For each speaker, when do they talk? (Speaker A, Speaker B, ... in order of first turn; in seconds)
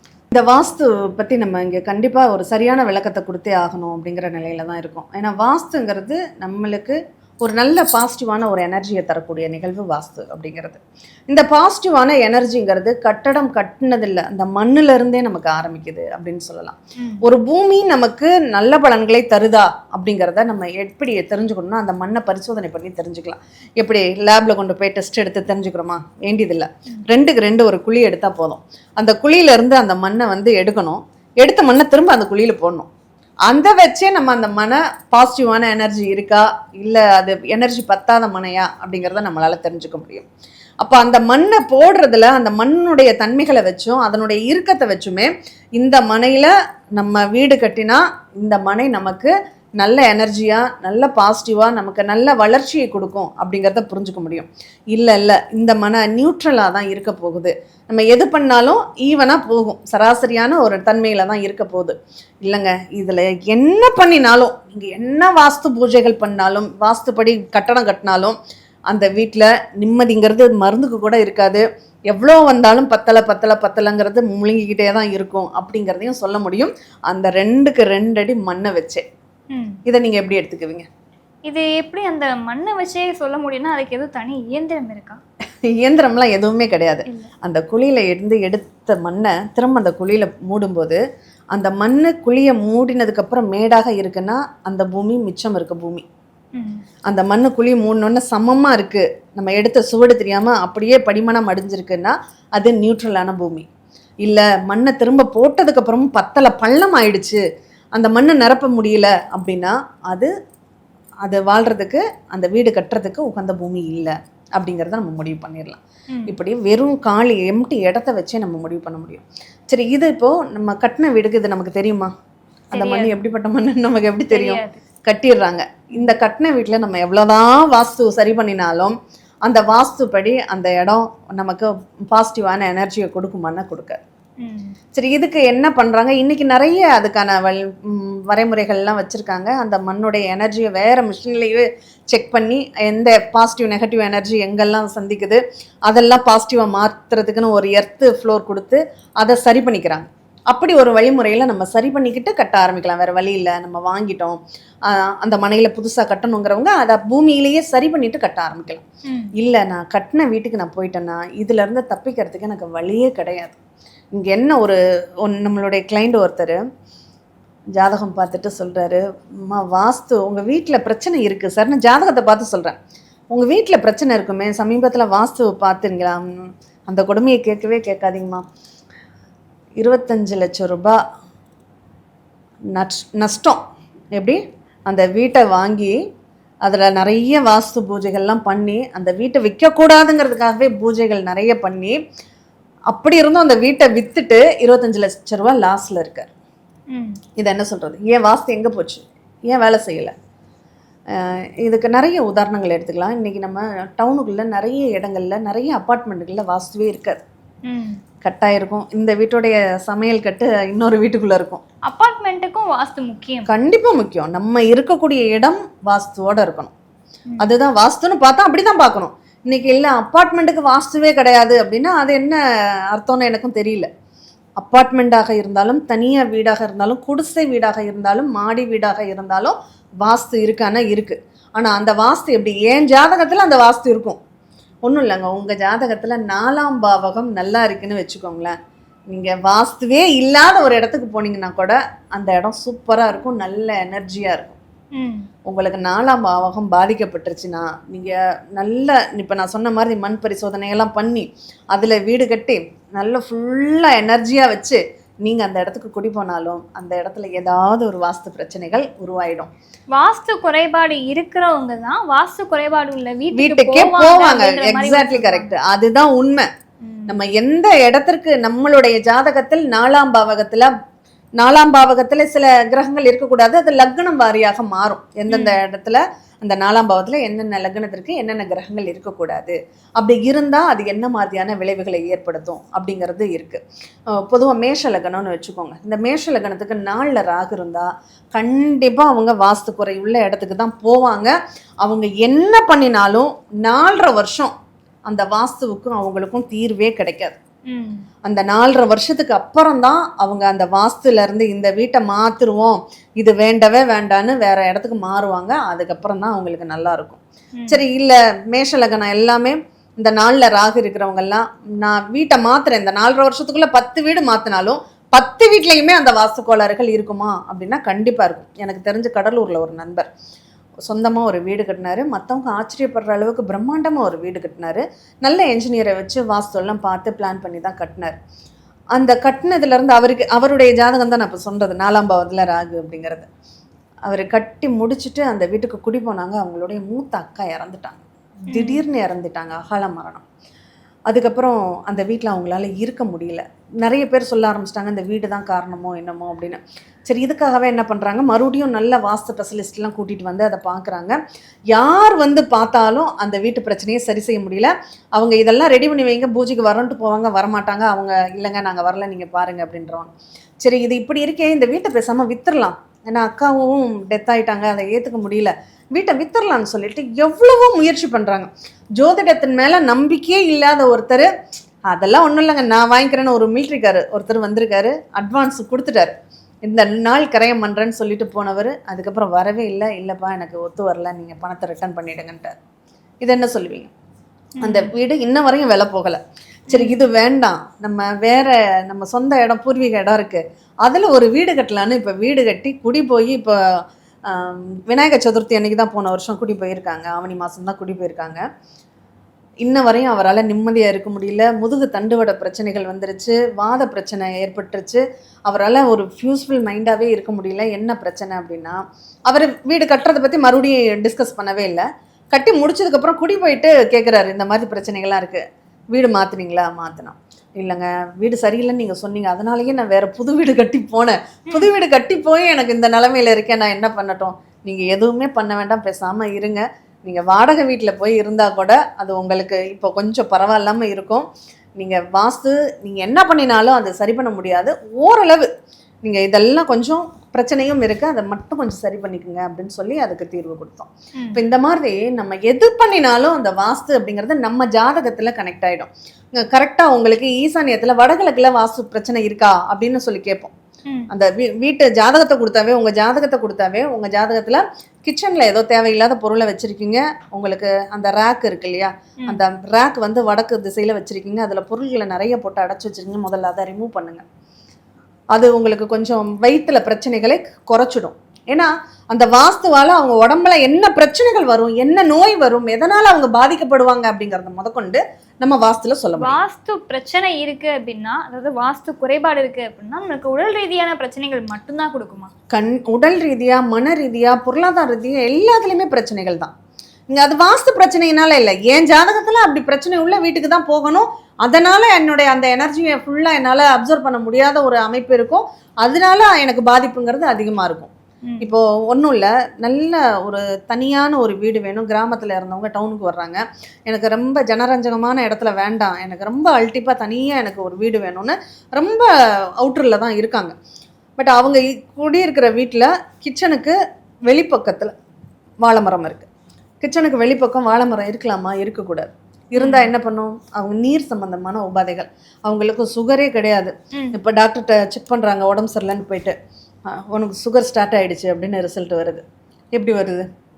Speaker A: 0.3-32.9, 33.5-40.2, 40.8-68.3, 68.9-79.0, 79.9-80.9, 85.7-91.0, 91.5-96.0, 97.1-103.7, 104.2-107.4, 108.0-110.3, 111.2-122.1, 122.7-134.0, 134.9-158.8, 159.4-163.6, 164.1-166.6, 167.8-172.7, 173.3-176.3, 176.9-178.4, 179.8-181.0, 182.7-183.6, 184.1-186.0, 186.6-192.0, 192.9-196.3, 197.4-200.1, 201.2-207.2, 208.2-211.6, 213.5-216.7, 217.4-222.4, 222.9-223.9, 224.6-234.2, 234.8-238.5, 239.1-244.6, 245.5-259.5, 263.3-266.5, 267.1-270.7, 271.4-283.6, 284.1-294.5, 295.1-297.4, 298.2-320.1, 320.9-328.1, 328.9-333.3, 334.1-338.0, 338.5-340.2, 341.1-351.2, 351.7-360.1, 360.6-371.3, 371.9-376.1, 376.6-382.5, 383.2-383.9, 384.6-393.5, 394.3-398.4, 399.6-431.2, 431.8-435.5, 436.0-450.5, 451.1-464.2, 465.3-476.4, 482.5-486.5, 487.1-497.9, 498.4-510.5, 511.2-513.7, 514.3-514.9, 515.6-516.3, 516.8-526.3, 527.1-529.2, 529.7-530.2
Speaker B: 17.0-17.2, 79.5-79.8, 81.5-85.2, 96.5-96.8, 122.7-123.1, 124.3-124.8, 134.4-134.8, 159.1-159.3, 196.9-197.2, 207.7-208.0, 211.9-213.5, 244.9-245.3, 259.9-265.5, 266.8-267.2, 275.3-275.6, 297.7-298.0, 338.4-338.8, 384.6-384.9, 386.7-387.0, 476.2-482.3, 519.6-519.9